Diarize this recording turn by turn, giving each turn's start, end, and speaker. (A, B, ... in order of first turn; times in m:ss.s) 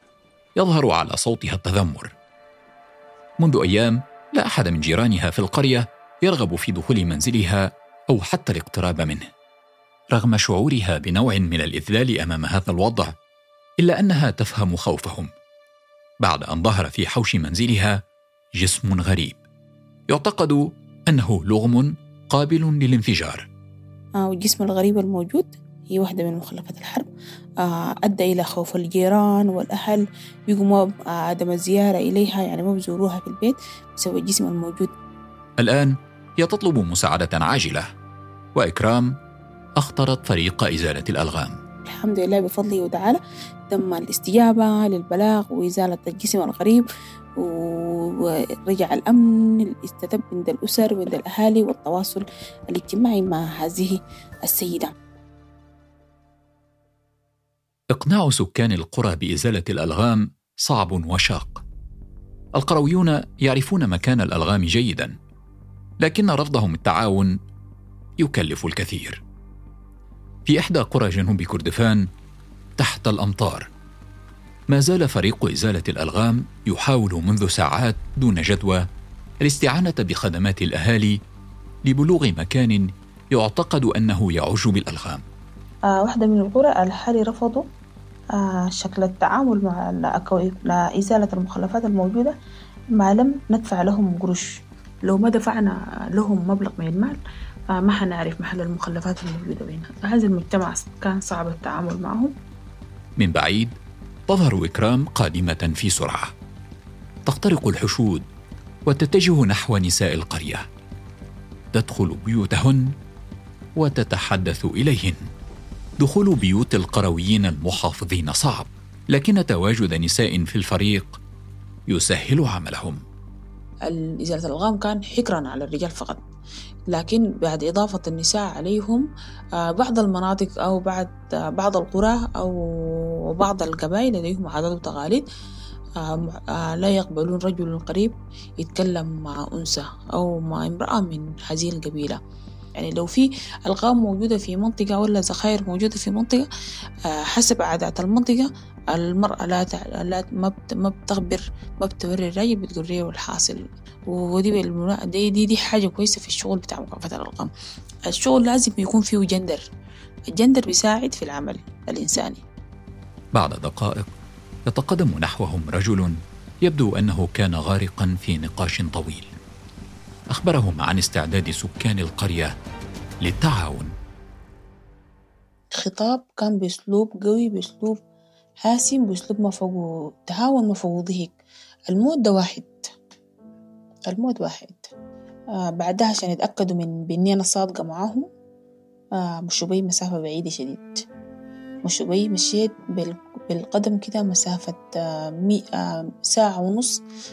0:00.6-0:02.1 A
0:03.4-0:09.3 A
0:10.1-0:13.2 A
0:13.8-0:15.3 A
0:16.2-0:18.0 A
0:18.6-0:19.4 A
0:20.1-0:23.5 A
0:24.2-0:27.1 B
0:27.6-0:34.9 B
0:35.6-0:37.9 A
0:38.6-0:39.2 A
0:39.8-0:41.6 A
0:41.9-0:46.9 B
0:47.4-0:54.9 B
0:57.9-1:01.6 A
1:02.6-1:05.2 A
1:06.0-1:07.4 A
1:08.2-1:09.2 A
1:10.5-1:12.1 A
1:12.8-1:13.7 A
1:14.7-1:18.8 A
1:19.4-1:21.2 A
1:21.9-1:25.2 A
1:25.9-1:27.6 B
1:28.4-1:32.4 B
1:33.0-1:37.2 B
1:37.7-1:42.3 B
1:43.2-1:43.8 A
1:44.3-1:46.3 A
1:47.3-1:48.2 A
1:48.9-1:50.7 A
1:51.7-1:52.9 A
1:53.8-1:55.2 A
1:56.0-2:01.2 A
2:01.9-2:03.0 A
2:03.9-2:06.2 B
2:06.9-2:09.1 B
2:09.6-2:15.3 B
2:16.0-2:22.2 B
2:22.8-2:26.5 B
2:27.1-2:37.5 B
2:38.1-2:39.6 B
2:40.3-2:42.4 B
2:43.4-2:44.1 A
2:44.7-2:49.4 A
2:50.3-2:52.5 A
2:53.2-2:53.9 A
2:55.8-2:58.0 B
2:58.6-3:01.4 B
3:01.9-3:02.8 B
3:04.1-3:04.9 B
3:05.6-3:08.2 B
3:09.2-3:11.0 B
3:11.8-3:17.0 B